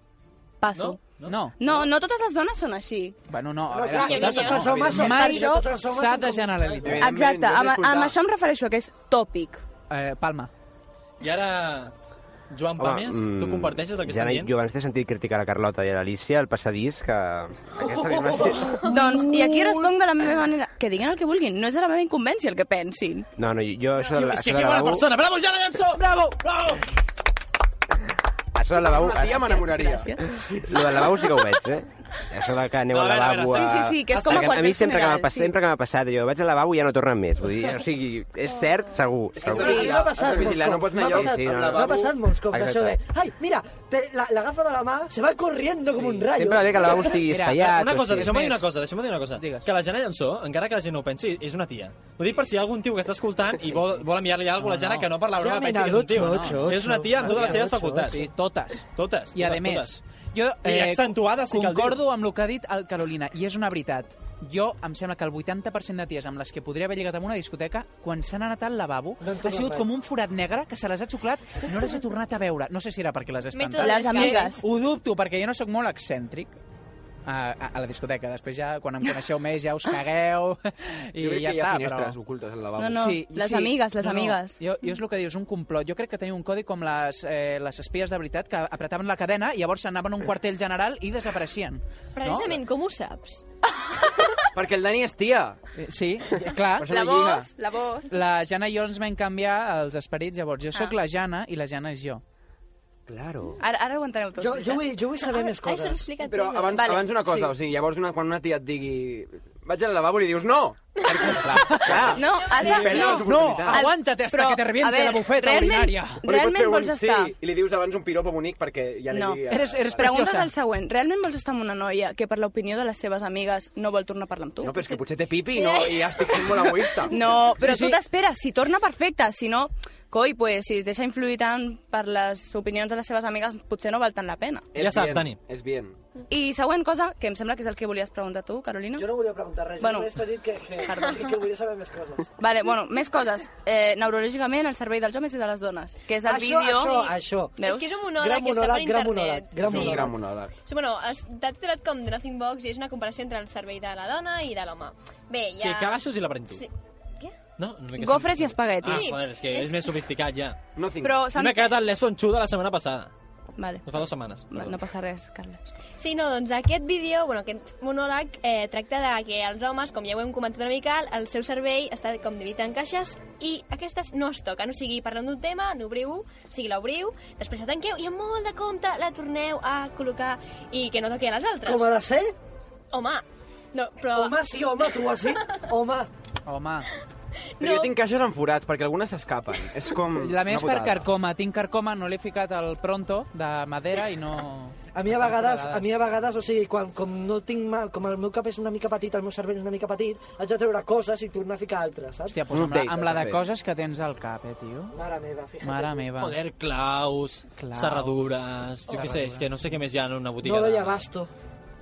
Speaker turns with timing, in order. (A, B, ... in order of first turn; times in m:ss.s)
0:00.6-0:01.0 A
0:00.7-0:01.3 B
0:01.2-0:01.6 C
0:01.6-0:03.2 A
0:03.3-0:07.0 C
0:03.7-0:06.9 D
0:04.0-0:04.7 E
0:04.6-0:05.1 F
0:04.9-0:05.7 A
0:06.8-0:08.2 F
0:07.0-0:09.6 A
0:09.9-0:10.5 C
0:11.2-0:11.9 B
0:12.5-0:14.5 B
0:12.8-0:18.8 G
0:17.8-0:19.0 D
0:18.8-0:23.3 A
0:23.4-0:25.1 G
0:24.0-0:26.8 B
0:26.0-0:26.2 C
0:28.6-0:29.5 G
0:28.7-0:30.8 F
0:29.2-0:30.4 A
0:30.6-0:39.8 G
0:32.9-0:34.7 B
0:33.5-0:35.6 A
0:38.5-0:39.0 E
0:39.4-0:42.2 F
0:39.4-0:47.3 D
0:39.5-0:39.9 A
0:41.2-0:41.8 G
0:42.5-0:43.0 G
0:46.3-0:48.4 G
0:47.1-0:48.7 C
0:47.5-0:58.3 B
0:49.4-0:49.7 C
0:54.6-0:55.1 C
0:55.3-0:58.2 D
0:56.1-1:16.5 C
0:58.9-1:00.0 B
1:00.6-1:02.0 B
1:09.2-1:09.9 D
1:13.5-1:14.6 E
1:13.8-1:14.6 A
1:17.2-1:22.2 C
1:21.2-1:23.0 F
1:22.8-1:24.6 A
1:22.9-1:32.6 C
1:32.2-1:33.4 E
1:34.5-1:35.6 F
1:35.8-1:37.3 C
1:36.7-1:37.5 F
1:36.8-1:38.1 A
1:38.1-1:42.2 C
1:43.1-1:43.6 F
1:43.6-1:44.9 A
1:44.4-1:46.1 D
1:45.2-1:46.8 E
1:46.2-1:53.9 F
1:46.7-1:47.6 A
1:51.0-1:51.5 E
1:51.5-1:52.1 C
1:51.9-1:57.3 A
1:52.3-1:53.3 E
1:53.0-1:56.2 C
1:56.2-2:00.3 F
1:59.1-2:04.8 A
1:59.5-2:00.5 C
2:04.6-2:07.5 F
2:05.6-2:06.3 E
2:06.4-2:14.7 A
2:07.6-2:08.0 C
2:14.7-2:16.0 F
2:14.8-2:15.4 B
2:16.3-2:19.1 A
2:18.9-2:22.3 D
2:19.8-2:20.1 A
2:20.8-2:21.2 A
2:22.4-2:28.0 A
2:26.2-2:30.2 D
2:27.6-2:30.1 E
2:29.6-2:30.5 F
2:30.6-2:37.4 E
2:35.6-2:36.6 B
2:37.6-2:40.6 B
2:38.0-2:39.1 A
2:38.8-2:40.0 E
2:40.8-2:41.2 F
2:41.0-2:41.8 A
2:41.3-2:43.1 B
2:43.6-2:43.8 A
2:43.8-2:44.8 B
2:44.5-2:45.7 A
2:46.0-3:01.9 E
3:01.6-3:02.3 D
3:02.9-3:05.6 E
3:04.1-3:06.1 D
3:06.4-3:06.9 C
3:07.6-3:07.9 E
3:07.6-3:11.0 F
3:10.1-3:15.9 C
3:14.9-3:22.4 D
3:22.3-3:25.0 C
3:22.5-3:23.4 F
3:24.9-3:26.0 D
3:25.6-3:26.4 C
3:26.2-3:31.1 B
3:27.6-3:29.7 C
3:30.4-3:31.3 D